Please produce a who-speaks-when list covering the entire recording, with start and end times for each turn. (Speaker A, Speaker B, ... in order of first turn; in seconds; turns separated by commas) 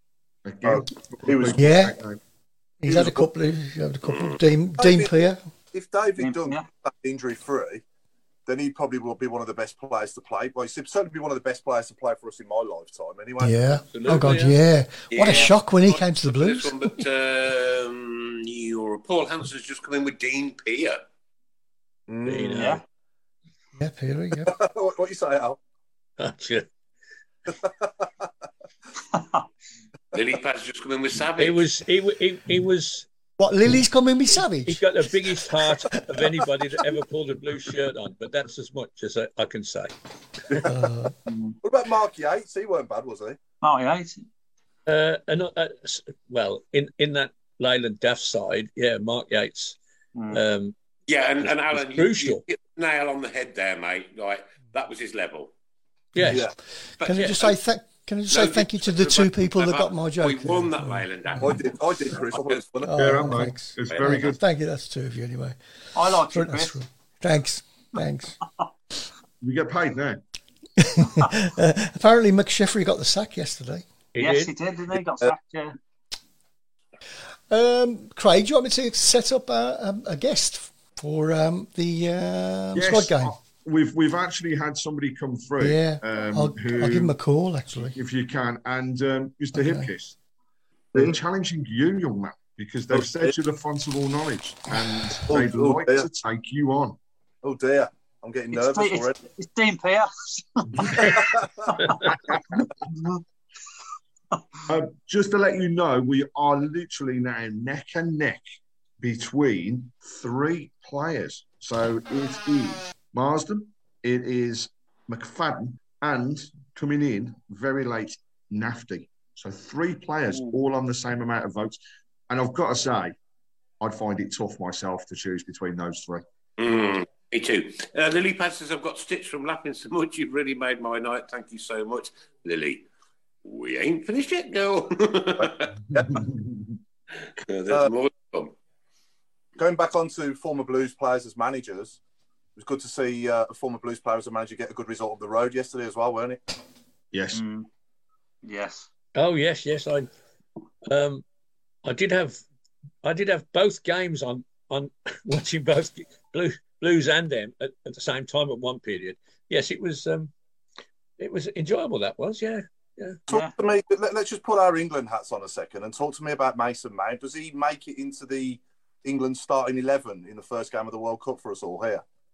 Speaker A: 0.4-2.2, Speaker B: 0.6-1.7, Speaker C: 1.5-2.0, Speaker C: 2.8-5.4, Speaker B: 2.9-3.3, Speaker D: 4.0-4.4, Speaker B: 4.8-7.8, Speaker E: 6.2-6.7, Speaker B: 8.4-13.8, Speaker C: 13.4-16.9, Speaker F: 13.9-14.6, Speaker D: 15.1-21.0, Speaker E: 15.2-15.5, Speaker B: 22.1-22.7, Speaker F: 22.2-22.8, Speaker E: 22.5-22.8, Speaker C: 23.8-24.5, Speaker B: 24.4-25.6, Speaker F: 26.2-26.7, Speaker B: 27.5-28.3, Speaker E: 29.1-29.4, Speaker D: 30.1-31.6, Speaker F: 31.4-33.1, Speaker C: 33.4-34.9, Speaker F: 34.5-39.9, Speaker C: 35.4-36.2, Speaker C: 40.6-41.1, Speaker E: 41.3-41.6, Speaker B: 41.6-43.4, Speaker E: 43.6-44.2, Speaker F: 44.9-49.8, Speaker E: 50.1-50.4, Speaker F: 50.3-50.7, Speaker D: 51.1-55.5, Speaker F: 51.4-52.4, Speaker F: 56.1-56.5, Speaker D: 57.0-57.5, Speaker C: 57.0-61.6, Speaker D: 58.3-62.6, Speaker B: 61.4-63.3, Speaker C: 62.8-65.6, Speaker A: 62.9-64.4, Speaker D: 63.9-64.2, Speaker E: 65.9-66.8, Speaker C: 66.1-68.4, Speaker A: 69.4-70.2, Speaker C: 70.8-73.8, Speaker F: 74.1-74.5, Speaker E: 74.2-75.8, Speaker C: 77.5-83.3, Speaker A: 82.7-87.2, Speaker C: 85.6-88.0, Speaker A: 87.9-90.2, Speaker C: 89.5-89.9, Speaker A: 90.9-97.0, Speaker B: 92.9-93.3, Speaker B: 95.3-96.1, Speaker B: 97.4-99.2, Speaker E: 98.5-101.2, Speaker B: 100.9-101.8, Speaker E: 102.9-103.2, Speaker A: 104.7-108.4, Speaker A: 109.0-123.2, Speaker A: 123.8-126.2, Speaker D: 126.6-132.8, Speaker D: 133.4-135.7, Speaker B: 135.4-136.2, Speaker A: 135.9-136.7, Speaker D: 137.4-138.5, Speaker B: 139.6-142.0, Speaker B: 142.6-146.4, Speaker A: 147.1-147.4, Speaker E: 147.3-147.7, Speaker E: 148.4-148.9, Speaker F: 149.2-150.1, Speaker F: 150.8-151.2, Speaker F: 151.8-152.4, Speaker F: 153.0-160.3, Speaker F: 161.2-163.2, Speaker E: 163.3-163.5, Speaker B: 163.3-172.0